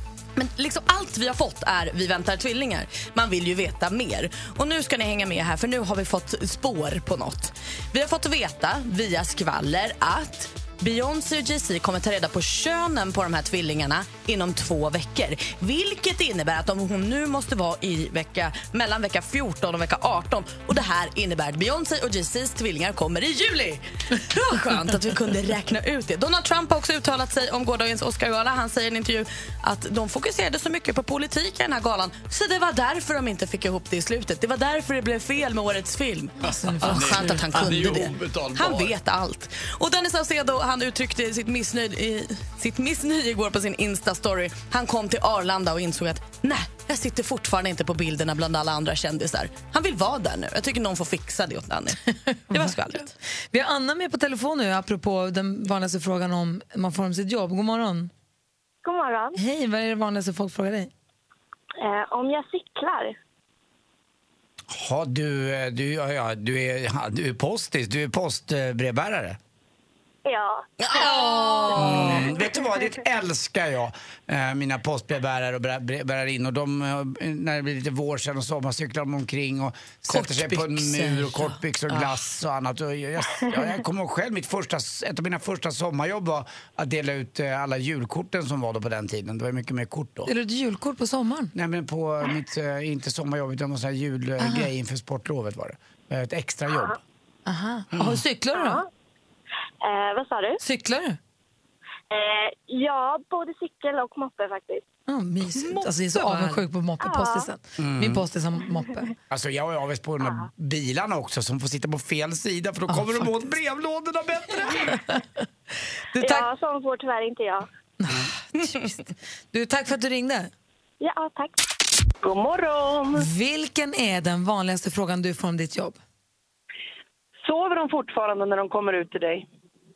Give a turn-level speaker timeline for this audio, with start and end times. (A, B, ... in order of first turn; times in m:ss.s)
0:00.4-0:53.1 A
0:36.4-0:37.4 B
0:36.7-0:38.9 C
0:52.5-0:52.8 B
0:53.5-0:58.1 B
0:58.8-0:59.4 D
0:59.4-1:00.9 B
1:01.8-1:03.1 D
1:04.7-1:09.4 C
1:10.2-1:11.6 D
1:10.8-1:12.3 A
1:11.7-1:30.3 C
1:20.1-1:22.2 A
1:30.3-1:31.5 B
1:31.5-1:37.0 C
1:34.4-1:34.7 B
1:37.5-1:38.8 B
1:37.9-1:38.2 C
1:38.5-1:38.9 D
1:39.8-1:40.6 D
1:40.6-1:41.2 B
1:42.1-1:44.8 D
1:45.1-1:49.1 B
1:45.6-1:46.6 A
1:47.0-1:47.5 D
1:47.8-1:48.3 C
1:49.3-1:54.8 C
1:52.9-1:53.3 B
1:54.8-1:55.2 B
1:56.1-1:56.5 B
1:56.2-1:57.7 D
1:58.0-2:00.5 B
2:01.0-2:01.6 D
2:02.2-2:03.2 E
2:03.1-2:06.0 B
2:07.4-2:09.5 E